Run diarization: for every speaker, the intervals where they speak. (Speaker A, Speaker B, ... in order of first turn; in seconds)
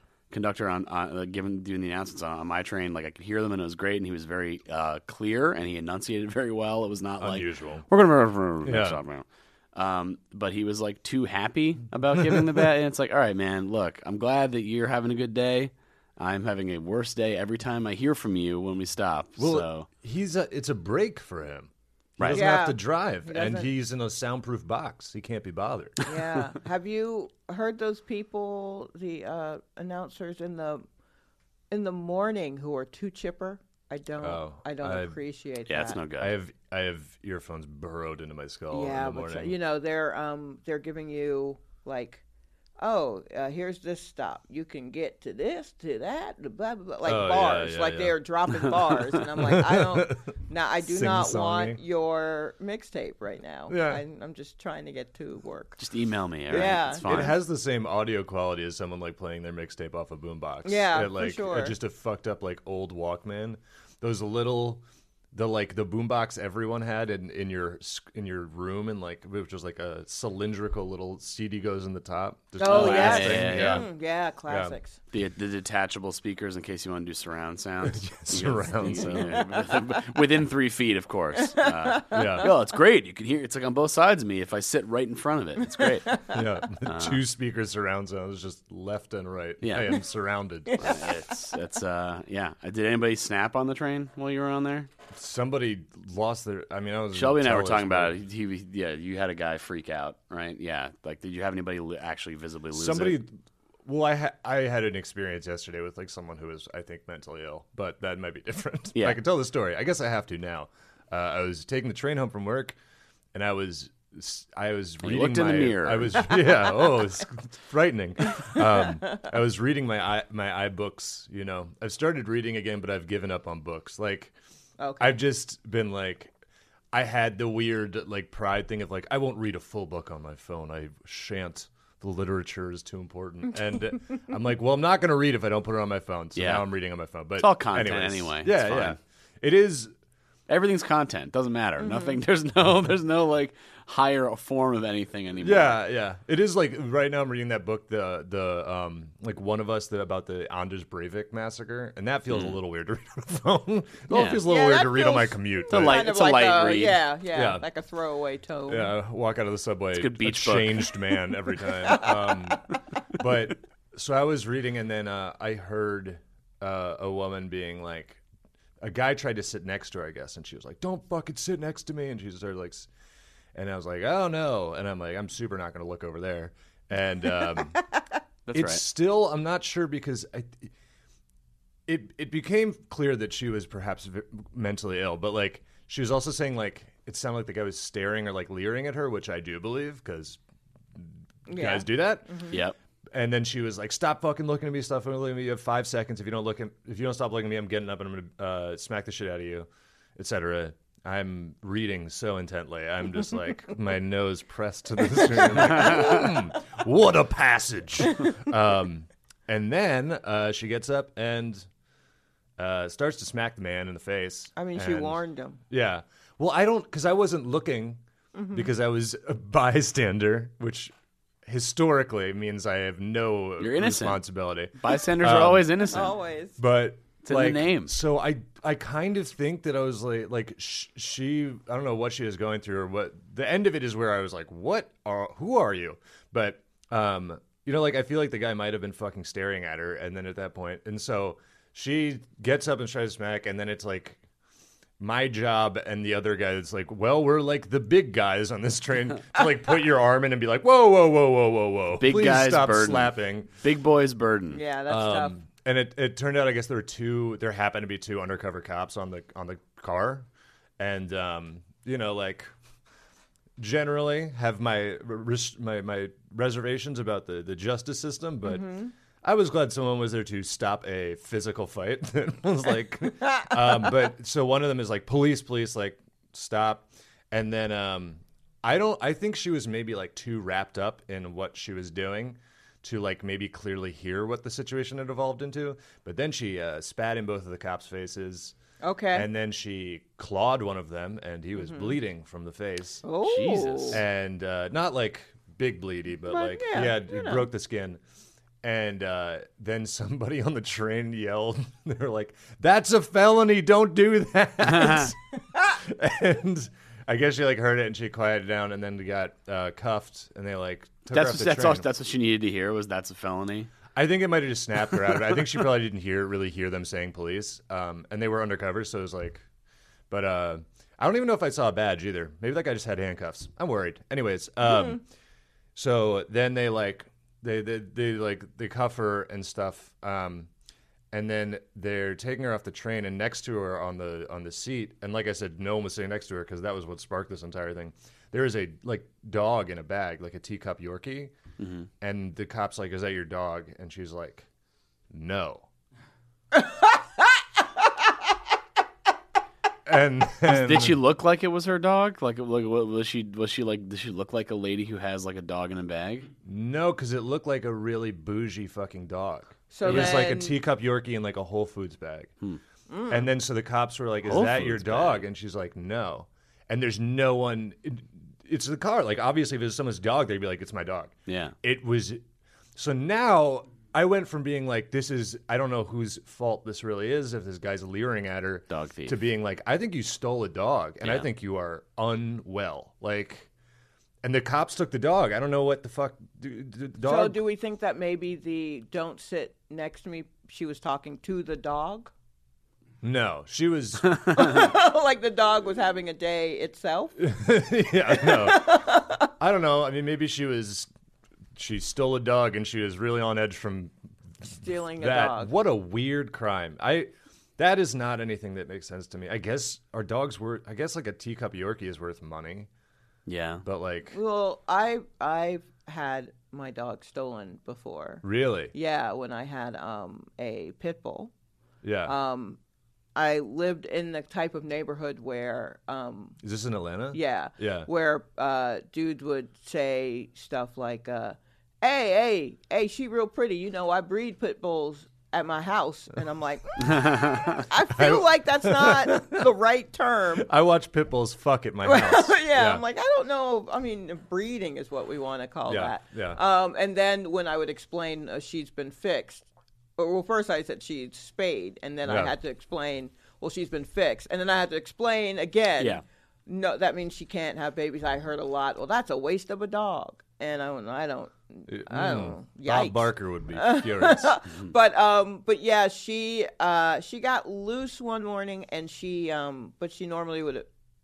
Speaker A: 0.3-19.9, 22.2-22.4, 35.7-36.4, 55.8-57.4, 72.7-73.8, 75.1-86.2, 86.8-87.2, 89.6-90.0, 90.8-94.9, 97.1-103.2, 109.0-109.2, 115.0-116.3, 136.4-136.7, 137.4-139.0, 140.5-145.8, 152.3-152.6, 154.1-154.4, 155.7-157.1, 159.9-161.2, 178.5-178.8, 223.6-224.2, 224.8-226.2, 227.2-227.9, 252.0-254.6, 293.2-294.0, 311.1-313.7, 341.6-341.9, 350.4-356.3, 359.9-360.2, 364.2-365.2, 371.3-371.6, 378.7-379.1, 381.0-381.3, 413.3-413.6, 437.0-437.5
Speaker B: 7.2-7.9, 8.6-9.0, 19.4-26.0, 34.2-35.2, 36.2-39.6, 47.0-48.2, 49.4-50.3, 50.8-51.8, 53.7-54.0, 56.5-73.9, 74.5-74.8, 77.9-79.4, 82.1-82.5, 86.3-90.9, 95.1-98.1, 102.7-103.3, 103.8-112.8, 113.3-124.3, 125.0-126.3, 126.9-139.9, 145.4-156.1, 157.3-157.6, 158.7-168.2, 168.8-172.9, 173.6-177.8, 178.5-180.7, 181.9-190.4, 190.9-192.4, 193.1-211.7, 212.6-215.2, 215.7-218.0, 218.5-220.9, 221.4-225.7, 226.6-244.2, 245.0-253.5, 254.9-260.3, 260.8-262.5, 263.6-268.7, 269.2-288.6, 289.1-293.0, 293.9-298.0, 298.6-311.9, 313.9-319.4, 320.1-325.0, 325.8-330.5, 331.1-341.3, 342.0-344.5, 345.1-345.7, 349.9-351.0, 356.4-362.3, 363.1-372.2, 372.8-383.5, 384.2-387.4, 393.0-394.2, 397.2-398.9, 399.4-400.9, 401.6-403.9, 405.0-412.7, 413.6-414.2, 418.2-418.7, 421.8-422.1, 426.4-427.9, 437.9-439.5, 440.4-442.8, 445.7-446.4, 452.1-452.3, 461.7-464.4
Speaker C: 22.3-23.7, 26.1-30.9, 31.7-36.0, 38.7-42.2, 42.8-55.8, 56.5-57.3, 60.6-61.8, 72.6-75.0, 78.9-79.5, 81.4-82.5, 85.8-86.4, 90.7-91.4, 116.4-117.0, 124.8-125.2, 141.8-142.2, 154.4-158.9, 161.9-162.4, 191.5-192.6, 214.6-215.6, 218.3-218.7, 225.8-226.6, 254.5-255.4, 268.4-268.9, 288.8-289.3, 291.6-292.0, 293.0-294.0, 296.3-297.5, 346.5-347.2, 359.7-360.6, 362.9-363.3, 387.0-392.1, 394.3-397.2, 398.1-399.3, 404.5-405.5, 414.1-421.3, 422.1-422.6, 423.1-426.4, 427.1-440.5, 441.8-449.5, 450.0-470.7